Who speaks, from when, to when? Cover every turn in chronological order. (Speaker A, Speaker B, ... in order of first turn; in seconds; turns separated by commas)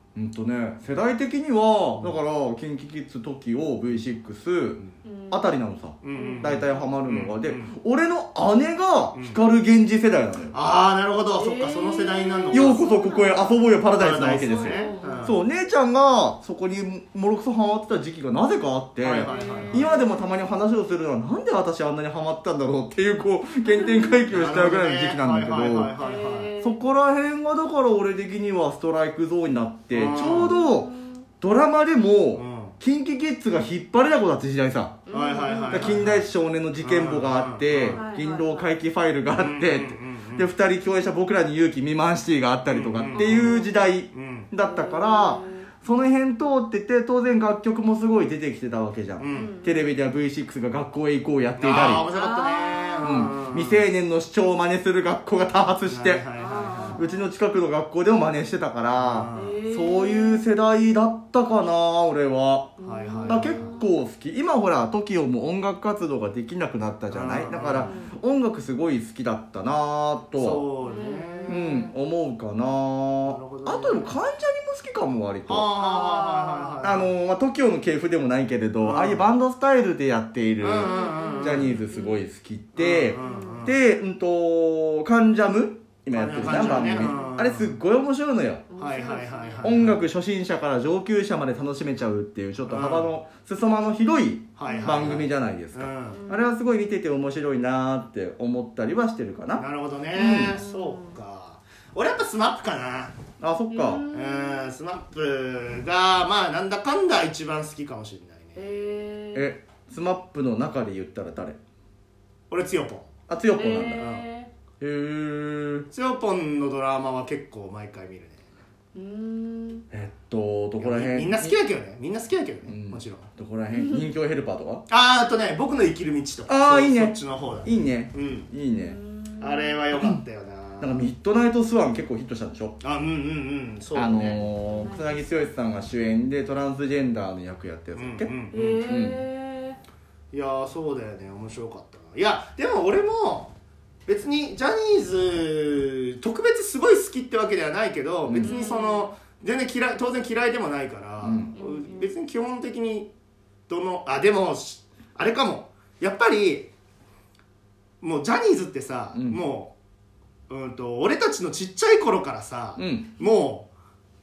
Speaker A: 0.1-10.5, Speaker B: 5.0-5.6, Speaker C: 6.0-7.7, Speaker B: 6.1-6.9, Speaker C: 10.5-12.8, Speaker B: 11.3-13.6, Speaker A: 12.5-25.9, Speaker C: 14.0-15.4, Speaker B: 14.2-15.3, Speaker C: 19.0-19.9, Speaker B: 19.3-20.3, Speaker B: 23.7-24.3, Speaker C: 24.3-26.5, Speaker B: 26.0-26.8, Speaker A: 26.6-35.0, Speaker C: 29.9-30.6, Speaker B: 30.1-31.3, Speaker C: 32.3-32.7, Speaker B: 35.0-36.0, Speaker C: 35.1-38.0, Speaker A: 35.7-52.1, Speaker B: 37.9-38.7, Speaker C: 39.4-40.5, Speaker C: 42.7-43.6, Speaker B: 43.1-43.9, Speaker C: 44.1-44.5, Speaker B: 44.6-45.7, Speaker C: 49.2-49.5, Speaker B: 49.3-49.9, Speaker C: 51.6-53.8, Speaker B: 52.1-53.3, Speaker A: 53.0-56.2, Speaker C: 55.8-57.0, Speaker B: 56.3-57.3, Speaker A: 56.9-70.7, Speaker C: 58.9-59.6, Speaker B: 59.3-60.4, Speaker B: 62.8-63.9, Speaker C: 62.8-63.8, Speaker C: 67.1-67.9, Speaker B: 67.7-68.2, Speaker C: 70.3-71.6, Speaker B: 70.8-71.9, Speaker A: 71.5-75.7, Speaker C: 73.2-74.1, Speaker C: 75.5-77.1, Speaker B: 75.8-76.8, Speaker A: 76.8-88.7, Speaker C: 78.8-79.2, Speaker C: 80.6-81.8, Speaker B: 80.8-82.2, Speaker C: 82.8-83.7, Speaker B: 83.2-83.7, Speaker C: 86.1-87.7, Speaker B: 86.5-87.3, Speaker B: 88.7-89.7, Speaker C: 88.8-90.0, Speaker A: 89.6-100.6, Speaker C: 92.7-93.1, Speaker C: 94.6-96.2, Speaker B: 94.6-95.2, Speaker B: 96.1-96.5, Speaker C: 99.5-103.1, Speaker B: 100.4-101.2, Speaker A: 103.4-104.0, Speaker B: 103.7-104.7, Speaker C: 104.1-108.7, Speaker B: 108.5-109.5, Speaker A: 109.3-111.6, Speaker C: 112.5-113.1, Speaker A: 113.3-114.1, Speaker B: 113.4-114.5, Speaker C: 114.0-114.2, Speaker A: 114.8-115.9, Speaker C: 115.9-118.4, Speaker B: 118.9-119.8, Speaker A: 119.9-121.5, Speaker C: 120.8-123.3, Speaker A: 122.7-124.8, Speaker B: 123.7-124.1, Speaker C: 124.9-128.5, Speaker A: 126.5-129.0, Speaker B: 128.7-129.8, Speaker C: 129.4-130.9, Speaker A: 129.9-130.2, Speaker A: 130.8-132.7, Speaker C: 132.8-134.4, Speaker A: 133.9-139.2, Speaker B: 134.3-135.5, Speaker C: 137.9-138.9, Speaker B: 138.5-139.8, Speaker C: 140.3-143.5, Speaker C: 144.1-153.1, Speaker A: 148.2-148.7, Speaker B: 148.4-149.1, Speaker A: 151.2-151.5, Speaker B: 151.6-152.1, Speaker C: 153.7-156.7, Speaker C: 158.0-159.7, Speaker A: 159.1-159.4, Speaker C: 160.5-163.7, Speaker A: 162.8-163.1